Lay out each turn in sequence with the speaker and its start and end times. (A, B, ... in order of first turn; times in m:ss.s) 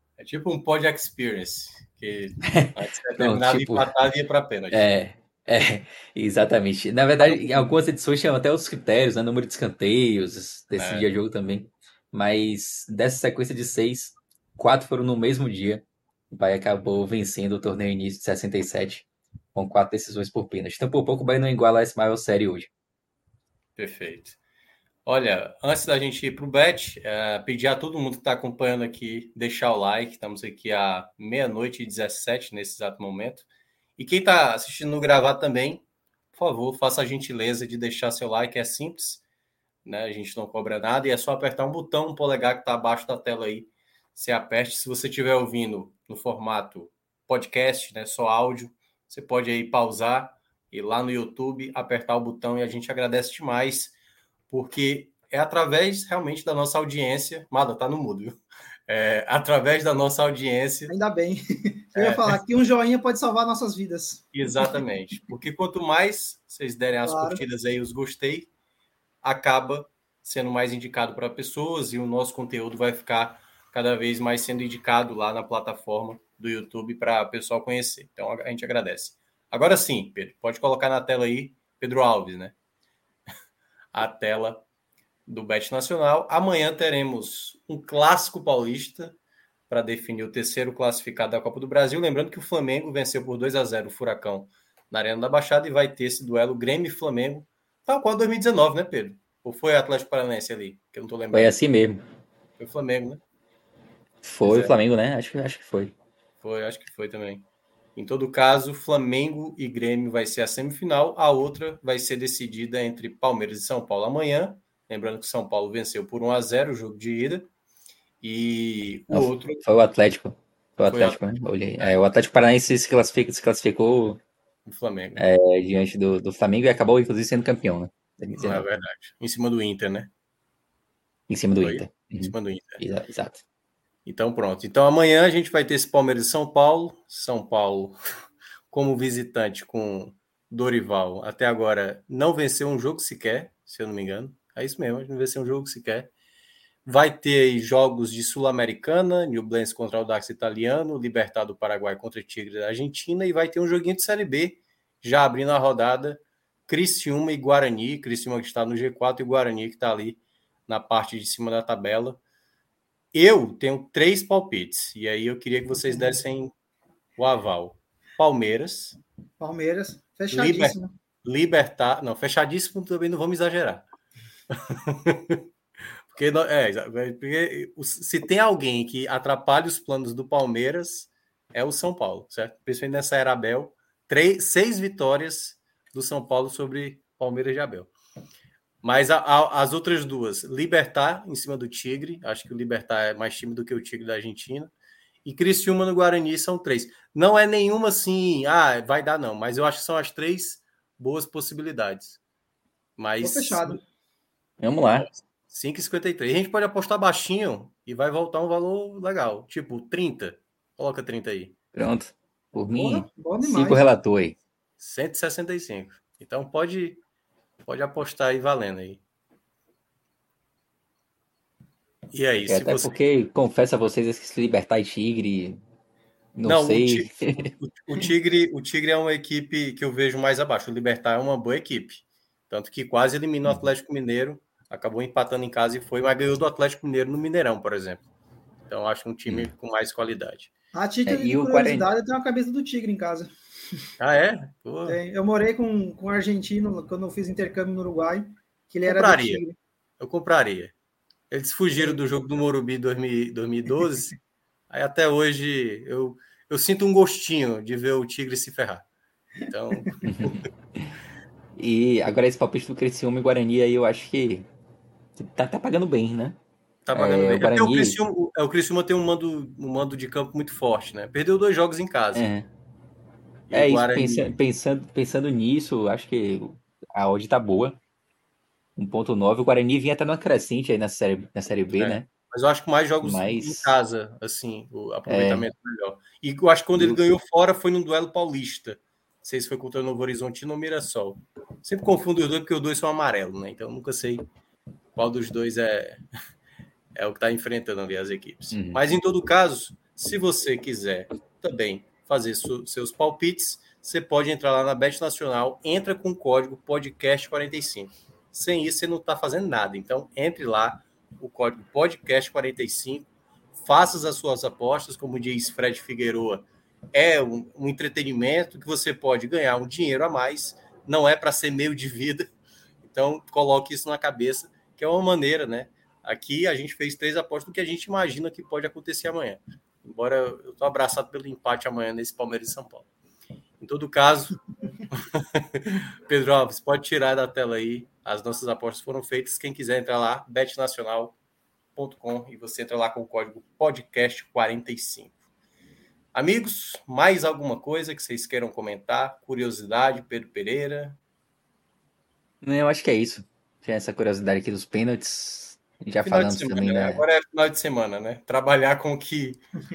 0:00.2-0:04.8 A
0:02.4-0:03.9 B
0:04.7-0:22.7 B
0:07.2-0:07.7 A
0:10.7-0:11.1 A
0:23.8-0:24.4 A
0:25.0-0:33.4 A
0:34.0-0:39.2 A
0:39.8-0:53.9 A
0:54.5-0:58.4 A
0:58.9-1:00.9 A
1:00.9-1:04.8 C
1:02.0-1:02.4 A
1:04.3-1:08.5 A
1:07.0-1:07.4 C
1:09.2-1:22.5 A
1:23.9-1:24.6 A
1:25.3-1:29.2 A
1:29.7-1:41.5 A
1:41.3-1:42.0 B
1:42.6-1:43.2 A
1:44.2-1:45.9 B
1:44.4-1:44.7 A
1:46.4-1:47.4 A
1:48.0-1:57.5 A
1:58.2-1:59.6 A
1:59.1-2:04.2 B
2:00.8-2:01.2 A
2:04.6-2:05.2 A
2:05.2-2:08.6 B
2:08.4-2:10.1 A
2:11.3-2:13.4 B
2:11.6-2:12.8 A
2:14.0-2:18.0 A
2:18.7-2:26.1 A
2:26.8-2:42.2 A
2:43.1-2:46.5 A
2:45.9-2:46.1 C
2:47.2-2:49.0 A
2:49.4-2:50.9 C
2:50.3-2:53.8 A
2:54.5-2:55.4 A
2:56.1-3:07.9 A
3:08.8-3:14.7 A
3:15.2-3:22.2 A
3:23.0-3:23.8 A
3:23.2-3:23.8 C
3:24.6-3:25.1 B
3:24.9-3:31.5 A
3:31.7-3:34.4 B
3:32.8-3:33.8 C
3:34.8-3:37.0 A
3:37.6-3:39.0 A
3:42.1-3:42.9 A
3:42.5-3:45.6 B
3:46.3-3:47.5 B
3:46.4-3:58.0 A
3:58.7-4:00.5 A
4:00.7-4:03.3 C
4:01.0-4:01.9 B
4:04.0-4:05.0 A
4:04.8-4:09.6 C
4:08.8-4:09.4 A
4:10.0-4:10.7 A
4:11.3-4:14.2 A
4:14.7-4:18.8 A
4:19.4-4:20.5 A
4:20.0-4:20.9 B
4:21.6-4:24.5 B
4:25.2-4:26.4 B
4:26.8-4:32.3 A
4:26.9-4:28.0 B
4:32.1-4:32.5 B
4:33.5-4:34.3 A
4:33.5-4:37.8 B
4:38.8-4:42.1 B
4:41.8-4:54.2 A
4:43.0-4:43.7 B
4:45.1-4:45.5 B
4:55.0-4:56.0 A
4:56.9-5:22.3 A
4:58.5-4:58.8 B
5:22.8-5:32.9 A
5:33.6-5:34.4 A
5:34.9-5:41.2 A
5:41.8-5:45.1 A
5:46.1-5:51.0 A
5:52.4-5:57.0 B
5:56.0-5:59.4 A